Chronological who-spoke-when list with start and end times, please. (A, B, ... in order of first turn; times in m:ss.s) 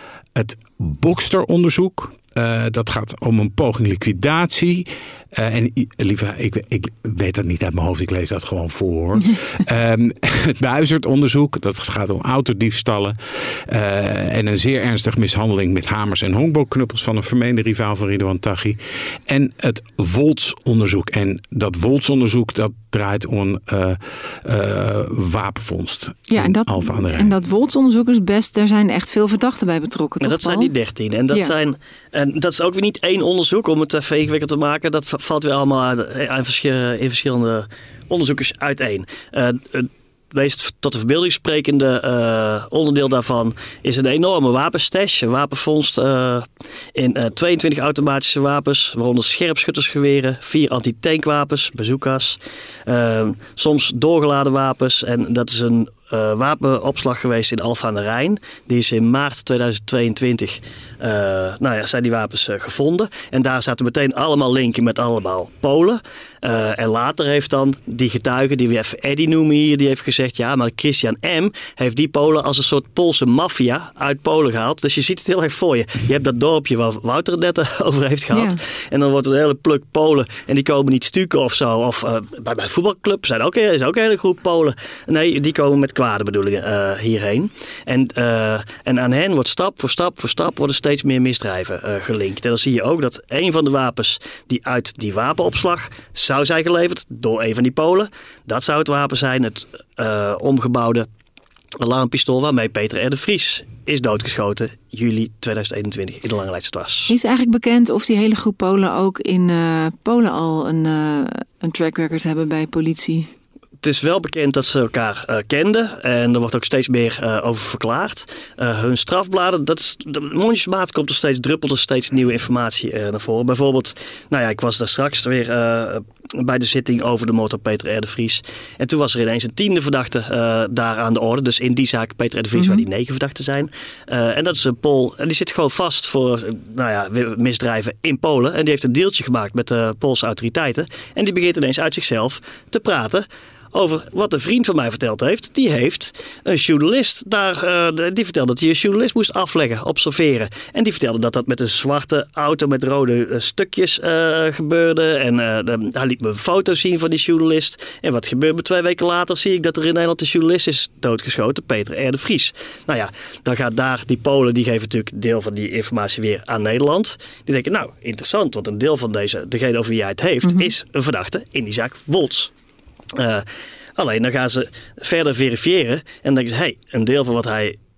0:00.4-0:27.3 A
0:26.3-0:30.7 B
0:30.2-1:41.1 C
1:18.3-1:18.6 B
1:41.8-1:47.1 C
1:47.1-1:53.3 B
1:53.8-2:52.5 C
2:12.6-2:12.8 B
2:50.4-2:50.7 B
2:53.2-2:57.8 C